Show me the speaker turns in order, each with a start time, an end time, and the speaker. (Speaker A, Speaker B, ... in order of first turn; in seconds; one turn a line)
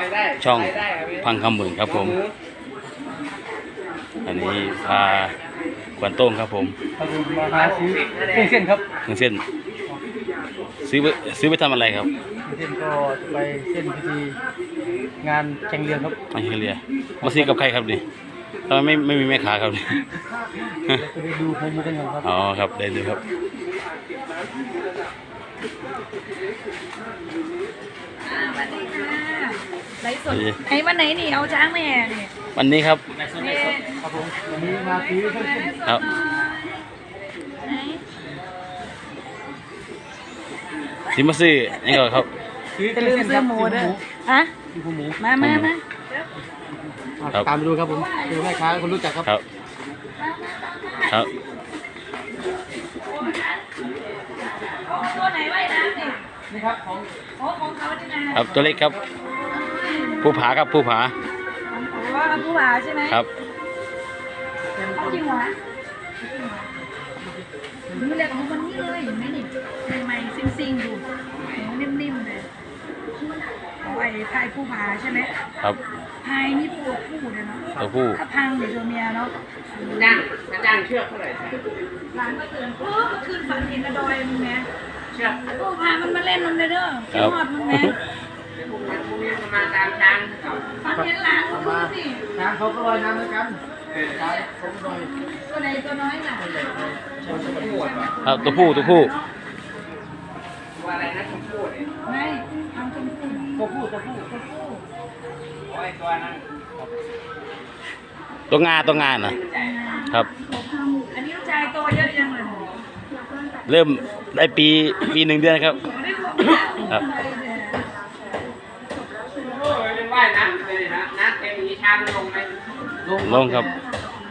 Speaker A: 0.4-2.2
Speaker A: 4.2-5.4
Speaker A: 6.0-6.8
Speaker B: 7.0-8.8
Speaker A: 9.1-9.4
Speaker A: 10.8-12.1
Speaker B: 12.4-14.4
Speaker B: 15.2-16.2
Speaker A: 16.3-18.0
Speaker B: 17.2-17.6
Speaker A: 18.7-20.1
Speaker B: 20.8-22.3
Speaker A: 22.2-23.2
Speaker C: 28.2-32.3
Speaker A: 30.3-30.6
Speaker A: 32.5-33.1
Speaker C: 33.3-34.0
Speaker B: 34.0-35.8
Speaker C: 34.6-36.9
Speaker C: 37.6-38.1
Speaker A: 41.1-42.3
Speaker B: 42.8-44.0
Speaker C: 42.9-44.5
Speaker B: 44.7-45.2
Speaker C: 45.2-46.3
Speaker A: 45.4-45.7
Speaker B: 47.0-49.3
Speaker C: 47.9-49.0
Speaker C: 50.2-51.1
Speaker A: 51.1-51.3
Speaker C: 53.0-53.9
Speaker C: 54.6-56.2
Speaker B: 56.5-57.1
Speaker C: 57.4-58.5
Speaker A: 58.3-59.0
Speaker B: 58.4-59.1
Speaker C: 59.5-60.3
Speaker A: 60.2-61.1
Speaker C: 61.7-63.2
Speaker B: 64.7-65.3
Speaker C: 65.0-65.6
Speaker C: 66.2-66.7
Speaker B: 67.0-68.2
Speaker C: 67.9-72.5
Speaker C: 73.8-75.3
Speaker C: 76.2-79.3
Speaker A: 77.8-78.2
Speaker C: 80.0-80.2
Speaker D: 80.2-81.6
Speaker C: 82.1-84.7
Speaker C: 85.4-88.0
Speaker A: 87.1-88.0
Speaker D: 88.6-90.6
Speaker C: 90.8-92.3
Speaker B: 91.0-95.1
Speaker C: 95.4-99.3
Speaker B: 96.4-98.0
Speaker A: 98.2-99.1
Speaker D: 100.8-101.8
Speaker C: 102.0-103.6
Speaker B: 103.5-104.3
Speaker C: 104.3-104.9
Speaker D: 105.7-106.4
Speaker A: 108.5-109.4
Speaker C: 109.5-112.8
Speaker A: 113.7-115.8
Speaker C: 115.9-117.9
Speaker D: 119.6-122.5
Speaker B: 123.0-123.8
Speaker A: 123.2-123.7